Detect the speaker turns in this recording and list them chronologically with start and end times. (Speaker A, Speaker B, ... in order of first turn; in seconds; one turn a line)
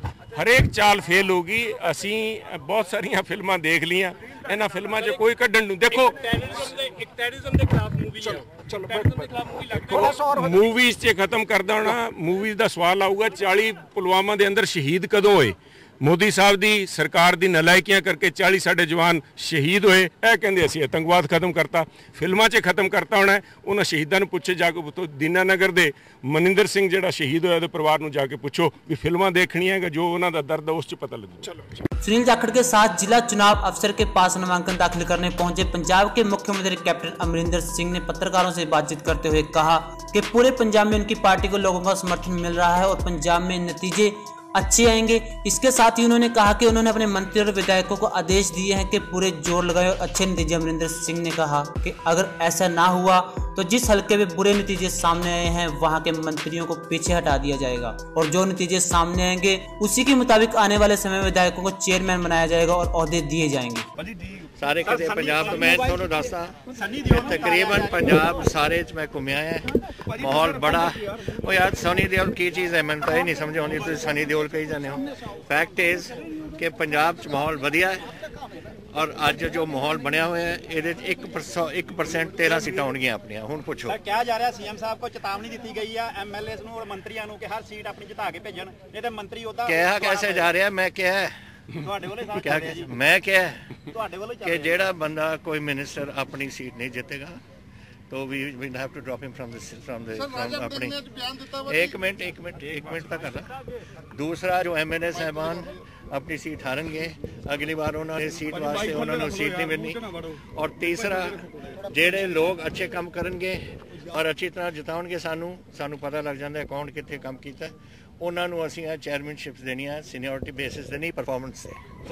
Speaker A: 0.3-31.8
Speaker B: 32.0-63.9
Speaker C: 64.4-78.1
Speaker D: 64.9-65.9
Speaker D: 66.7-68.1
Speaker C: 78.9-84.0
Speaker D: 83.9-90.5
Speaker C: 89.6-91.4
Speaker D: 91.8-92.9
Speaker C: 92.3-93.7
Speaker D: 93.9-94.8
Speaker C: 94.4-97.4
Speaker C: 98.1-103.5
Speaker C: 104.1-121.8